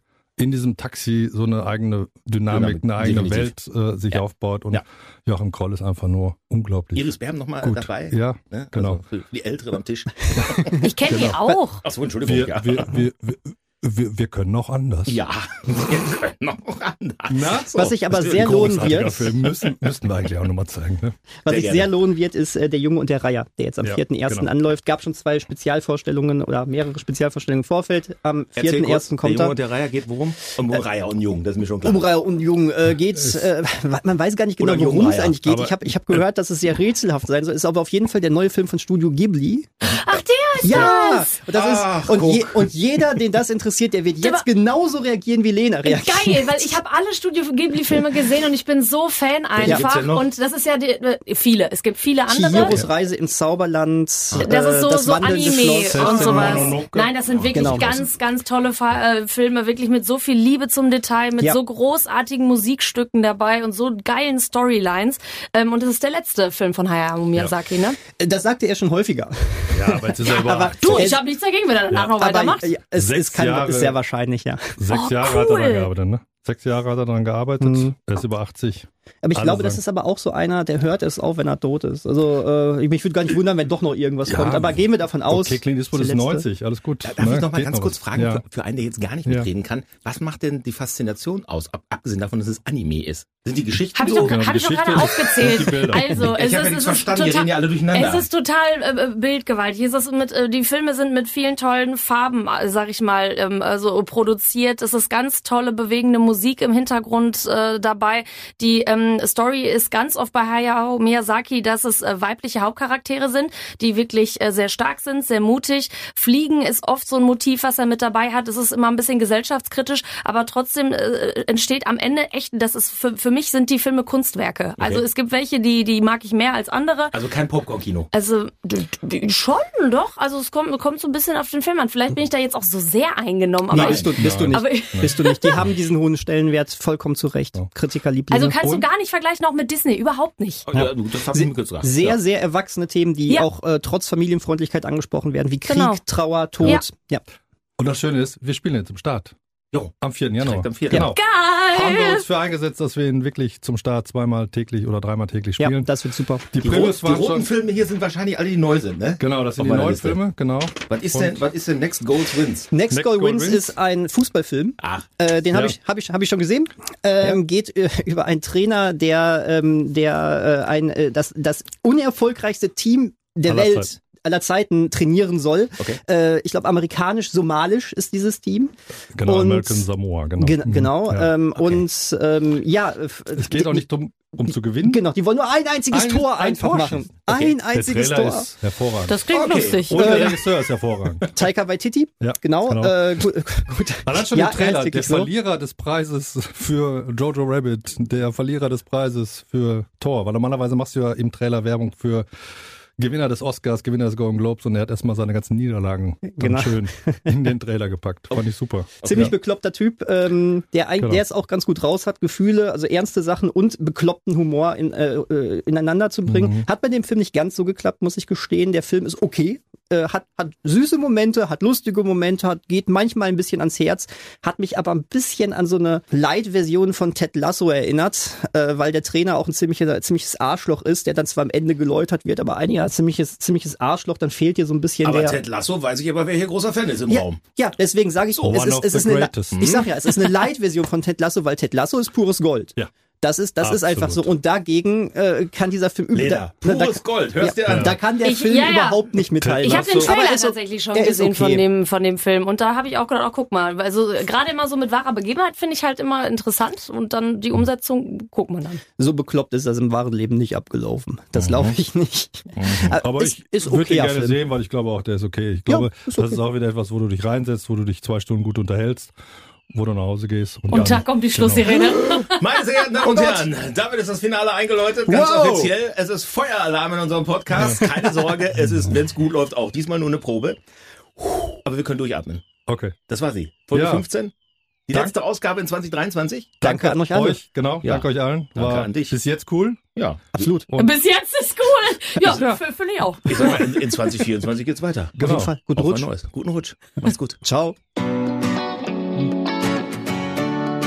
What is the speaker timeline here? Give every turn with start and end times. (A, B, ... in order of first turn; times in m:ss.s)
0:00.4-0:09.0 A
0:02.5-0:03.5 B
0:04.1-0:04.8 B
0:07.0-0:10.7 B
0:10.8-0:11.8 C
0:11.1-0:11.5 A
0:11.8-0:12.9 B
0:12.2-0:15.2 A
0:15.1-0:19.2 B
0:17.3-0:21.2 A
0:17.8-0:19.3 D
0:21.4-0:29.6 D
0:21.5-0:21.9 B
0:23.8-0:24.5 A
0:28.6-0:32.1 B
0:31.8-0:39.7 D
0:33.1-0:33.5 A
0:34.6-0:35.4 B
0:34.6-0:36.2 A
0:39.8-0:41.3 C
0:40.6-0:46.7 D
0:40.7-0:43.2 B
0:45.8-0:52.8 C
0:49.6-0:50.3 B
0:49.6-0:49.9 D
0:52.3-0:56.8 D
0:52.5-0:52.9 A
0:54.3-1:08.0 C
0:55.8-0:57.9 A
0:55.9-0:56.6 B
0:57.5-0:58.0 D
1:08.2-1:11.2 D
1:09.7-1:11.2 A
1:10.8-1:12.7 C
1:12.2-1:14.8 D
1:12.9-1:14.0 A
1:14.8-1:19.8 A
1:14.9-1:15.9 C
1:17.6-1:17.9 D
1:19.2-1:26.5 D
1:24.2-1:28.4 A
1:27.0-1:34.4 B
1:33.9-2:07.2 C
1:34.1-1:36.3 A
1:36.1-1:38.3 B
2:04.8-2:05.0 B
2:07.1-2:08.1 B
2:08.1-2:15.7 C
2:13.7-2:18.6 D
2:13.7-2:14.1 B
2:14.1-2:15.7 A
2:18.3-2:20.6 C
2:18.6-2:18.9 A
2:20.7-2:22.2 B
2:20.7-2:27.2 D
2:25.7-2:26.0 C
2:27.8-2:29.3 A
2:29.7-2:31.1 B
2:30.0-2:35.9 A
2:31.1-2:32.2 C
2:35.6-2:36.5 D
2:36.5-2:37.5 A
2:36.6-2:40.2 B
2:39.2-2:41.4 A
2:40.9-2:42.7 B
2:42.7-2:58.7 D
2:42.9-2:43.7 A
2:44.8-2:45.1 B
2:45.5-2:45.8 A
2:53.5-2:53.9 A
2:59.1-3:01.7 A
2:59.2-3:03.9 D
3:03.4-3:05.0 A
3:04.5-3:08.5 D
3:05.9-3:11.3 A
3:09.0-3:10.1 C
3:09.3-3:10.3 B
3:09.9-3:10.4 D
3:11.3-3:15.3 D
3:12.2-3:13.3 A
3:14.0-3:22.3 A
3:23.0-3:29.3 A
3:26.3-3:27.4 D
3:29.0-3:29.3 B
3:29.0-3:55.4 D
3:31.0-3:31.2 A
3:36.3-3:36.6 A
3:55.0-3:57.4 B
3:57.1-4:11.7 D
3:58.4-3:59.6 A
3:59.5-3:59.9 B
4:03.6-4:04.3 A
4:06.1-4:08.0 B
4:07.7-4:08.0 A
4:08.2-4:09.0 C
4:09.4-4:10.1 A
4:09.6-4:18.8 C
4:19.0-4:24.4 D
4:21.4-4:21.8 B
4:22.6-4:23.0 B
4:22.9-4:29.1 A
4:25.7-4:26.4 D
4:29.7-4:31.8 A
4:30.7-4:32.4 C
4:31.8-4:40.6 B
4:33.0-4:33.4 D
4:35.1-4:35.6 A
4:35.3-4:35.6 D
4:37.5-4:37.9 A
4:41.4-4:42.4 B
4:42.6-4:43.0 A
4:43.1-4:44.3 B
4:43.7-4:44.1 A
4:44.9-4:46.6 B
4:46.6-4:49.8 A
4:46.6-4:47.4 D
4:47.8-4:49.2 B
4:50.0-4:50.2 B
4:50.3-4:50.7 D
4:50.4-4:51.0 A
4:50.8-4:53.8 C
4:52.3-4:52.6 A
4:53.2-4:55.1 B
4:55.1-4:55.6 A
4:55.2-4:56.1 D
4:55.8-4:57.4 B
4:57.4-4:57.8 D